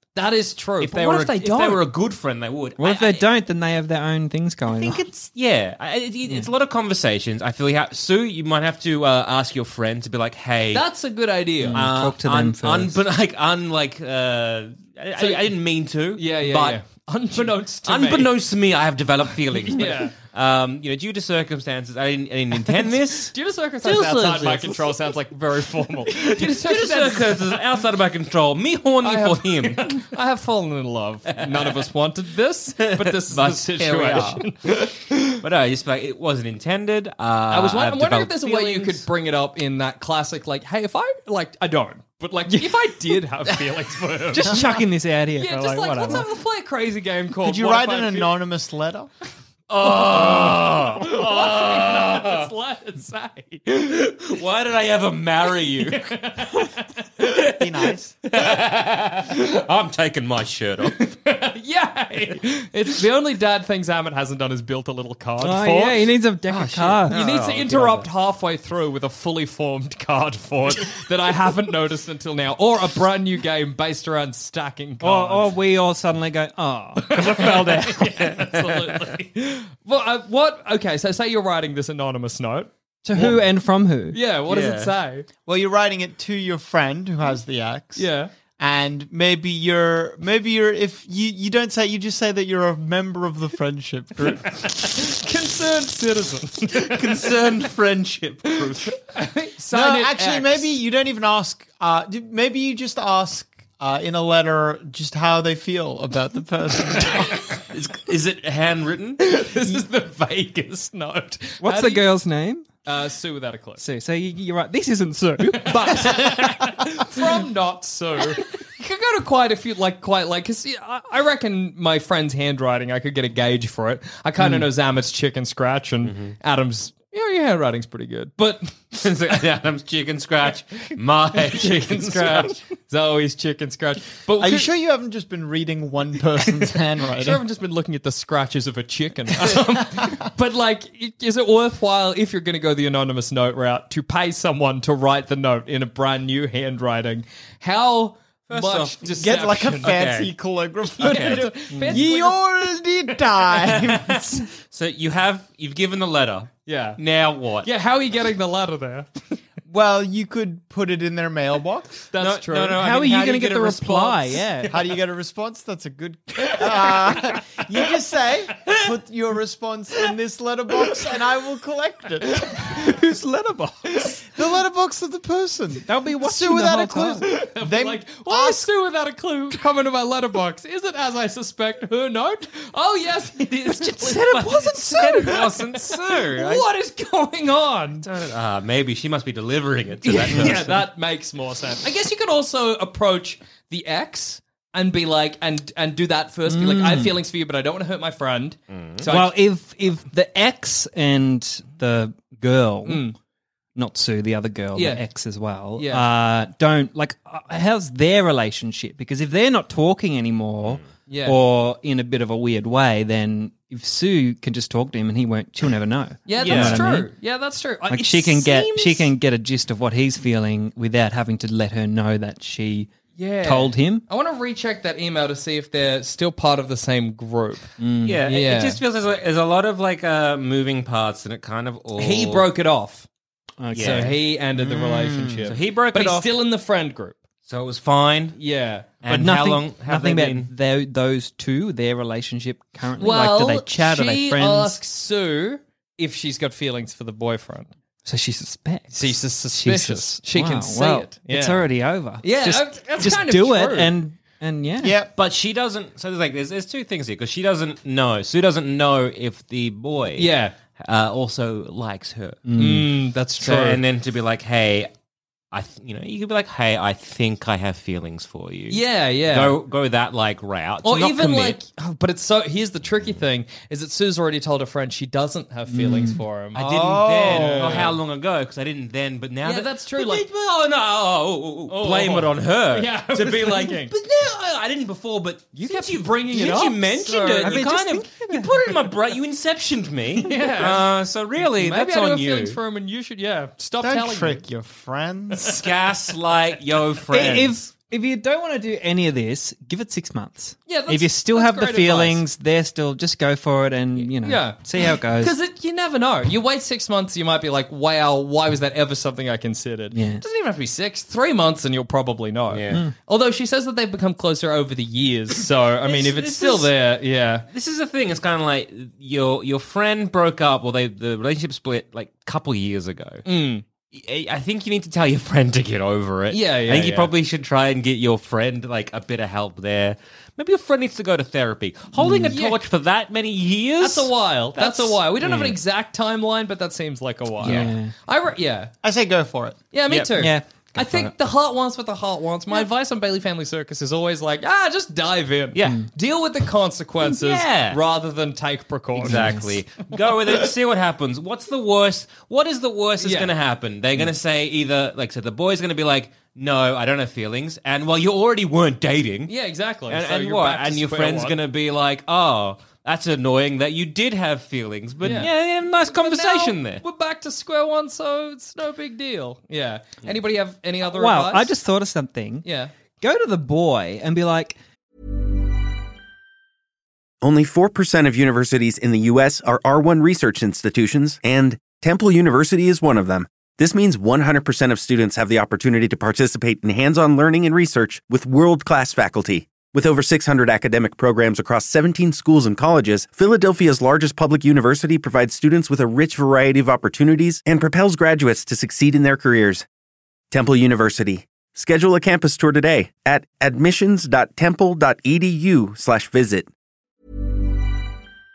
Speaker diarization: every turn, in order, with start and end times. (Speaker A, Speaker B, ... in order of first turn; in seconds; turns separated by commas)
Speaker A: 0.1-1.8, Speaker B: 0.8-3.3, Speaker C: 2.8-5.0, Speaker B: 4.8-10.9, Speaker A: 10.7-11.9, Speaker B: 11.6-16.8, Speaker C: 11.6-13.0, Speaker A: 15.2-15.5, Speaker A: 16.1-18.3, Speaker B: 17.3-25.0, Speaker A: 19.7-20.1, Speaker A: 23.3-27.6, Speaker B: 26.1-30.1, Speaker A: 29.0-35.4, Speaker B: 31.3-31.9, Speaker B: 32.8-34.4, Speaker B: 35.4-39.0, Speaker A: 37.5-44.6, Speaker C: 42.5-43.2, Speaker C: 44.3-46.3, Speaker A: 45.4-48.4, Speaker D: 47.4-49.1, Speaker B: 49.7-52.5, Speaker A: 49.8-53.9, Speaker B: 53.7-56.5, Speaker A: 55.9-56.9, Speaker D: 57.6-58.1, Speaker B: 58.2-61.1, Speaker A: 61.0-66.1, Speaker C: 65.4-67.2, Speaker B: 66.5-68.1, Speaker A: 67.1-75.5, Speaker C: 75.0-78.2, Speaker A: 77.0-83.4, Speaker B: 78.2-79.0, Speaker C: 83.0-84.2, Speaker A: 84.1-85.3, Speaker B: 84.5-84.9, Speaker D: 85.5-94.6, Speaker A: 88.0-88.3, Speaker A: 94.6-97.4, Speaker B: 96.7-99.0, Speaker A: 98.5-100.8, Speaker D: 99.7-107.5, Speaker B: 107.6-109.8, Speaker A: 109.2-112.1, Speaker C: 111.6-112.7, Speaker A: 112.8-113.8, Speaker C: 113.8-117.3, Speaker A: 115.6-128.8, Speaker C: 124.4-124.7, Speaker B: 126.0-126.3, Speaker B: 128.9-132.6, Speaker A: 131.3-134.7, Speaker D: 134.4-137.4, Speaker A: 137.2-149.9, Speaker D: 139.5-140.2, Speaker B: 148.5-150.3, Speaker D: 149.1-154.4, Speaker B: 151.0-151.5, Speaker A: 151.0-152.4, Speaker C: 151.7-152.0, Speaker B: 153.5-157.7, Speaker A: 156.7-157.0, Speaker A: 157.6-159.1, Speaker D: 159.7-162.1, Speaker A: 162.1-162.8, Speaker B: 162.2-164.4, Speaker C: 162.7-164.8, Speaker D: 164.7-172.7, Speaker A: 166.4-166.9, Speaker A: 172.4-172.8, Speaker C: 172.6-174.2, Speaker A: 173.9-174.2, Speaker D: 174.3-178.7, Speaker C: 175.8-177.3, Speaker A: 177.2-188.1, Speaker C: 183.7-185.4, Speaker B: 184.1-186.7, Speaker B: 188.0-190.8, Speaker A: 190.0-199.4, Speaker C: 190.3-190.7, Speaker C: 196.5-197.2, Speaker B: 198.7-199.1, Speaker C: 199.1-203.1, Speaker A: 202.8-203.2, Speaker C: 203.8-217.1, Speaker A: 204.8-205.0, Speaker A: 205.8-206.1, Speaker A: 211.1-211.4, Speaker A: 216.3-219.1, Speaker B: 216.4-216.9, Speaker C: 217.9-224.1, Speaker A: 223.2-227.7, Speaker C: 227.8-228.2, Speaker B: 228.0-232.5, Speaker A: 228.3-228.8, Speaker A: 232.0-233.1, Speaker C: 233.6-235.4, Speaker B: 233.7-234.2, Speaker A: 233.8-237.2, Speaker B: 235.4-236.4, Speaker B: 237.5-238.4, Speaker A: 238.4-238.9, Speaker B: 239.0-240.5, Speaker C: 239.1-244.8, Speaker A: 243.0-247.7, Speaker C: 248.1-255.0, Speaker A: 248.9-251.7, Speaker A: 252.2-253.9, Speaker D: 254.8-255.1, Speaker B: 255.2-262.4, Speaker A: 260.2-260.5, Speaker C: 262.4-262.9, Speaker A: 262.6-263.8, Speaker B: 263.4-264.9, Speaker B: 265.5-271.6, Speaker A: 268.7-269.6, Speaker A: 270.8-276.6, Speaker C: 275.7-276.2, Speaker B: 276.5-292.6, Speaker D: 276.6-277.9, Speaker A: 277.2-278.0, Speaker A: 279.4-280.2, Speaker A: 281.7-283.9, Speaker A: 285.6-287.6, Speaker C: 287.4-288.8, Speaker A: 290.2-290.9, Speaker A: 291.4-294.4, Speaker D: 293.8-295.6, Speaker B: 295.5-297.6, Speaker C: 297.1-305.4, Speaker A: 300.7-302.2, Speaker A: 304.2-317.5, Speaker C: 309.9-310.2, Speaker B: 312.5-312.8, Speaker B: 315.9-316.8, Speaker B: 317.5-323.2, Speaker A: 323.2-323.6, Speaker B: 323.9-335.6, Speaker A: 326.3-327.1, Speaker C: 332.0-332.4, Speaker A: 332.3-332.6, Speaker A: 333.8-338.7, Speaker C: 337.4-337.9, Speaker B: 337.4-337.7, Speaker D: 338.8-339.6, Speaker A: 339.7-349.4, Speaker C: 340.2-340.5, Speaker B: 347.0-347.8, Speaker B: 349.0-359.3, Speaker C: 349.0-349.5, Speaker A: 353.0-353.3, Speaker A: 359.3-361.4, Speaker B: 359.9-366.8, Speaker C: 365.0-365.3, Speaker A: 365.0-365.3, Speaker A: 365.8-371.5, Speaker C: 370.9-372.5, Speaker A: 372.4-372.7, Speaker C: 373.0-374.6, Speaker E: 377.2-399.6, Speaker E: 400.3-406.5